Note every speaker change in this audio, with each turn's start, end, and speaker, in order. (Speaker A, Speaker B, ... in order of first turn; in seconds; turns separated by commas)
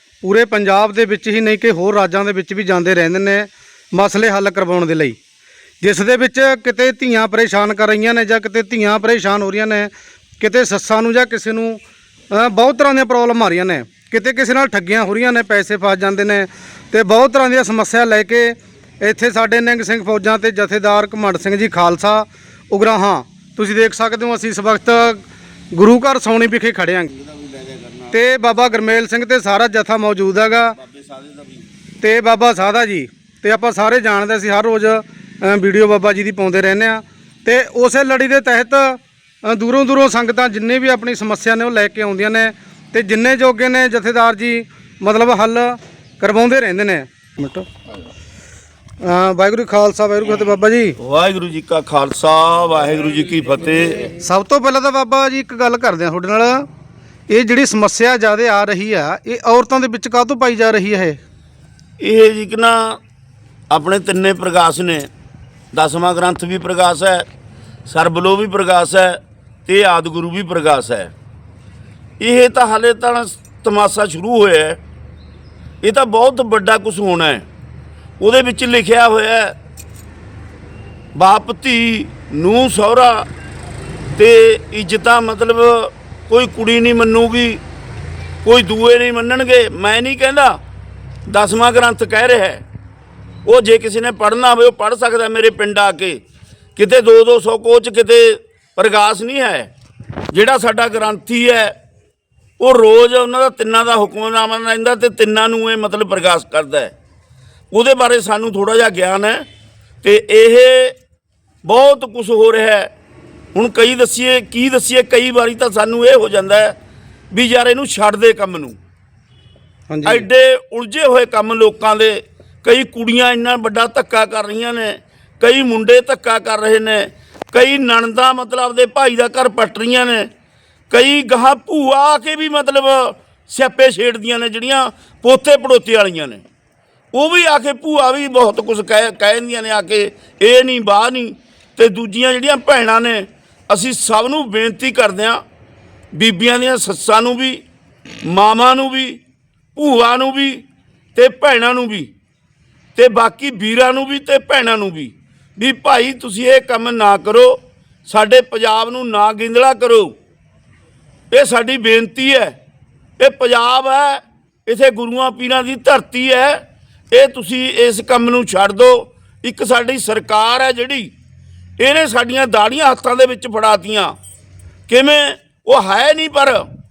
Speaker A: 0.2-5.2, Speaker A: 5.8-11.8, Speaker A: 12.3-27.1, Speaker B: 27.1-28.6, Speaker A: 28.1-30.8, Speaker B: 30.7-31.6, Speaker A: 32.0-47.7, Speaker A: 49.0-51.0, Speaker B: 51.0-54.1, Speaker A: 54.1-56.6, Speaker A: 57.3-61.2, Speaker B: 62.0-63.0, Speaker B: 63.7-65.1, Speaker B: 65.7-67.2, Speaker B: 67.9-71.1, Speaker B: 72.2-74.8, Speaker B: 75.8-77.4, Speaker B: 78.2-79.5, Speaker B: 81.1-83.3, Speaker B: 84.2-87.6, Speaker B: 88.4-90.6, Speaker B: 91.3-92.6, Speaker B: 93.4-96.2, Speaker B: 96.8-99.7, Speaker B: 100.3-101.7, Speaker B: 102.6-106.9, Speaker B: 107.7-109.4, Speaker B: 110.0-110.9, Speaker B: 111.6-112.9, Speaker B: 113.5-116.7, Speaker B: 117.3-118.8, Speaker A: 119.9-120.3, Speaker B: 120.0-130.3, Speaker B: 130.9-136.4, Speaker B: 137.1-145.4, Speaker B: 146.1-147.6, Speaker B: 148.2-149.2, Speaker B: 149.7-150.6, Speaker B: 151.1-152.1, Speaker B: 152.9-160.1, Speaker B: 161.3-162.5, Speaker B: 163.2-171.1, Speaker B: 171.8-174.1, Speaker B: 174.9-176.6